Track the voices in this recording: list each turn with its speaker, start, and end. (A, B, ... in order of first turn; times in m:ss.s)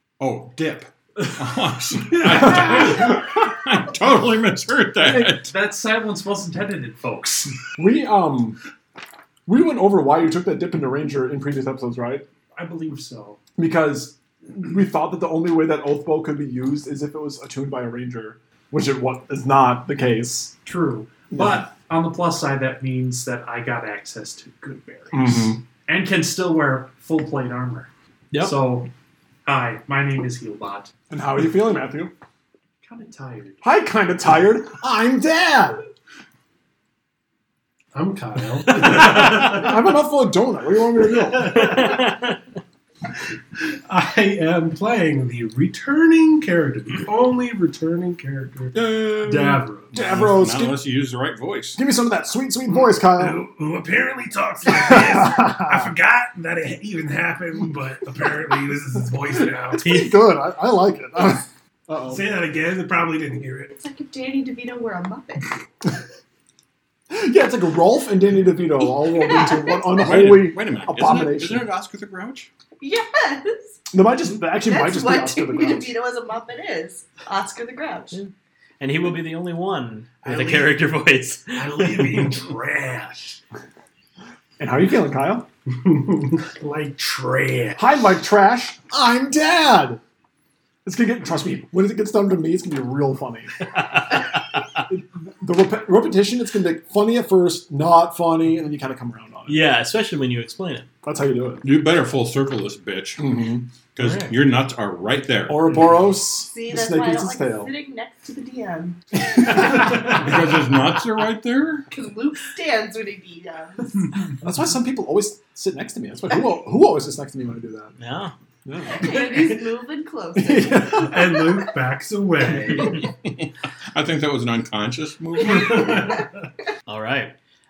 0:00.2-0:05.5 A
0:05.3-0:07.6 B
0:07.8-0:08.6 C
0:09.5-0:12.2 C
0:12.6-0:13.4 B
0:13.6-0:20.5 C
0:20.7-0:28.9 B
0:21.3-0:21.6 C
0:25.1-0:25.6 C
0:29.5-0:30.9 B
0:31.1-0:32.1 C
0:32.8-0:33.6 B
0:33.6-0:35.8 C
0:37.9-0:39.9 D
0:38.8-0:42.0 C
0:41.3-0:42.1 D
0:43.9-0:50.0 D
0:48.7-0:50.8 C
0:49.9-0:51.8 A
0:51.8-0:53.4 C
0:53.0-1:00.1 D
0:54.7-0:55.9 C
0:59.6-1:02.3 C
1:02.0-1:03.7 D
1:03.7-1:05.5 E
1:07.1-1:11.7 C
1:09.1-1:10.0 E
1:10.0-1:12.5 A
1:12.8-1:13.8 E
1:13.9-1:16.0 C
1:14.6-1:18.2 E
1:18.1-1:22.4 F
1:20.2-1:20.7 D
1:21.6-1:23.4 D
1:24.6-1:25.5 C
1:25.7-1:27.9 D
1:27.8-1:30.0 C
1:30.8-1:34.2 C
1:34.8-1:39.6 C
1:39.5-1:40.9 F
1:41.0-1:41.7 C
1:41.6-1:43.3 A
1:43.2-1:43.7 C
1:43.9-1:45.8 A
1:44.0-1:44.3 F
1:45.5-1:47.7 C
1:46.5-1:49.0 E
1:49.5-1:51.9 A
1:51.9-1:54.1 E
1:54.4-1:57.9 C
1:58.0-1:58.3 F
1:58.6-1:59.4 C
1:58.8-2:01.0 E
2:00.4-2:01.4 C
2:00.9-2:03.0 D
2:02.8-2:06.2 A
2:06.9-2:07.3 F